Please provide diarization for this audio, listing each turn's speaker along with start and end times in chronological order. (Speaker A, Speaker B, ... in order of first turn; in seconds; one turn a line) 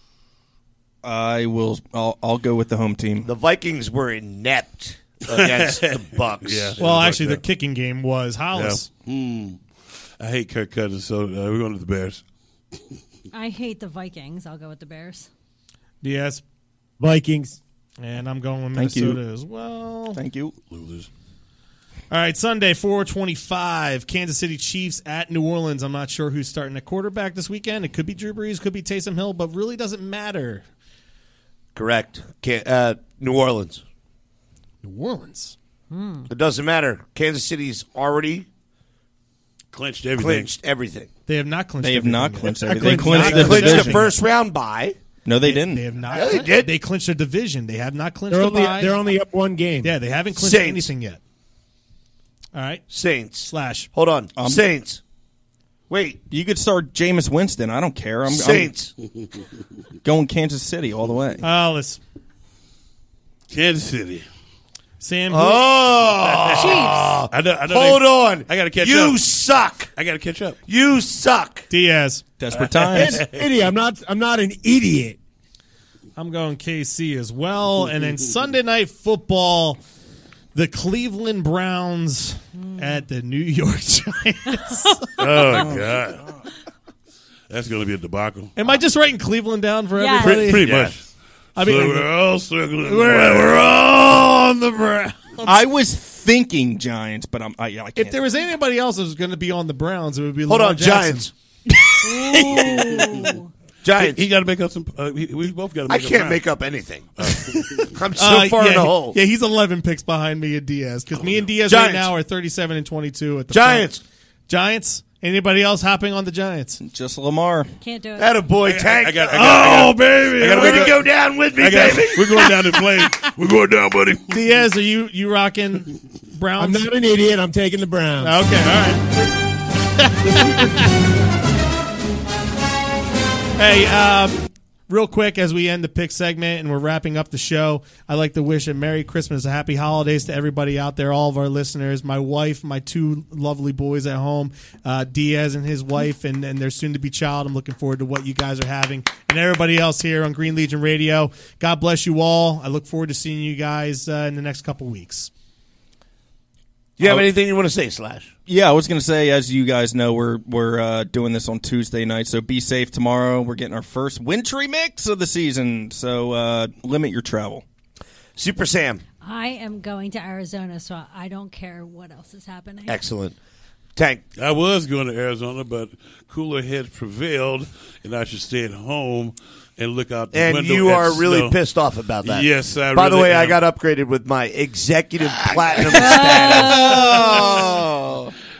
Speaker A: 1.0-3.3
Speaker B: 3.2-6.8
Speaker C: 5.3-7.4
Speaker D: 6.8-8.9
Speaker C: 8.6-9.6
Speaker C: 10.2-12.2
Speaker E: 13.3-15.3
Speaker D: 16.0-16.4
Speaker F: 17.0-17.6
Speaker D: 18.0-20.2
Speaker A: 18.8-19.2
Speaker A: 20.1-20.6
Speaker C: 20.7-21.1
Speaker D: 22.1-30.6
Speaker B: 31.8-33.8
Speaker D: 34.8-36.2
Speaker B: 36.3-38.5
Speaker C: 39.7-40.5
Speaker B: 40.1-41.1
Speaker D: 41.3-44.2
Speaker A: 41.8-44.0
Speaker B: 42.8-45.0
Speaker F: 42.9-43.2
Speaker A: 45.3-45.9
Speaker D: 45.4-49.0
Speaker B: 46.1-46.7
Speaker F: 48.3-50.0
Speaker D: 49.8-51.2
Speaker B: 50.4-50.9
Speaker D: 52.5-52.9
Speaker B: 52.9-55.0
Speaker D: 53.4-53.9
Speaker A: 54.4-54.6
Speaker B: 55.9-56.2
Speaker A: 56.3-58.7
Speaker B: 58.3-58.9
Speaker A: 60.0-61.5
Speaker D: 61.4-62.0
Speaker C: 63.5-64.2
Speaker D: 65.0-65.7
Speaker B: 65.3-69.9
Speaker C: 66.3-66.8
Speaker E: 66.6-67.1
Speaker C: 67.3-69.3
Speaker C: 70.0-70.6
Speaker B: 70.7-71.7
Speaker D: 71.7-72.2
Speaker A: 72.4-73.3
Speaker C: 72.5-73.3
Speaker F: 73.0-75.2
Speaker D: 76.2-79.8
Speaker D: 80.5-85.7
Speaker E: 82.6-83.0
Speaker C: 85.2-86.3
Speaker C: 87.5-88.7
Speaker D: 88.6-90.6
Speaker E: 90.0-90.6
Speaker C: 90.2-91.1
Speaker B: 90.6-90.9
Speaker D: 91.6-92.1
Speaker C: 91.6-93.6
Speaker D: 92.8-95.6
Speaker A: 95.4-98.2
Speaker D: 98.0-101.3
Speaker B: 100.5-101.3
Speaker A: 101.7-103.0
Speaker E: 102.0-103.5
Speaker B: 103.8-104.2
Speaker C: 104.0-106.4
Speaker B: 105.9-109.2
Speaker C: 107.2-107.9
Speaker D: 108.2-113.9
Speaker B: 111.7-112.1
Speaker B: 113.5-114.0
Speaker D: 114.5-116.8
Speaker A: 116.8-117.7
Speaker E: 117.8-118.3
Speaker B: 118.2-119.9
Speaker C: 118.6-124.5
Speaker D: 119.3-120.9
Speaker B: 120.4-122.5
Speaker D: 124.3-126.9
Speaker F: 126.6-128.4
Speaker D: 128.2-129.1
Speaker D: 129.9-130.9
Speaker F: 130.2-130.9
Speaker D: 133.6-155.3
Speaker B: 157.0-158.3
Speaker A: 157.0-157.3
Speaker A: 158.5-167.6
Speaker B: 168.4-169.0
Speaker E: 169.2-173.0
Speaker B: 172.9-173.4
Speaker B: 174.0-174.2
Speaker C: 174.4-181.5
Speaker B: 180.3-187.0
Speaker C: 182.2-183.6
Speaker E: 185.9-187.6
Speaker A: 186.6-188.3
Speaker C: 186.9-187.6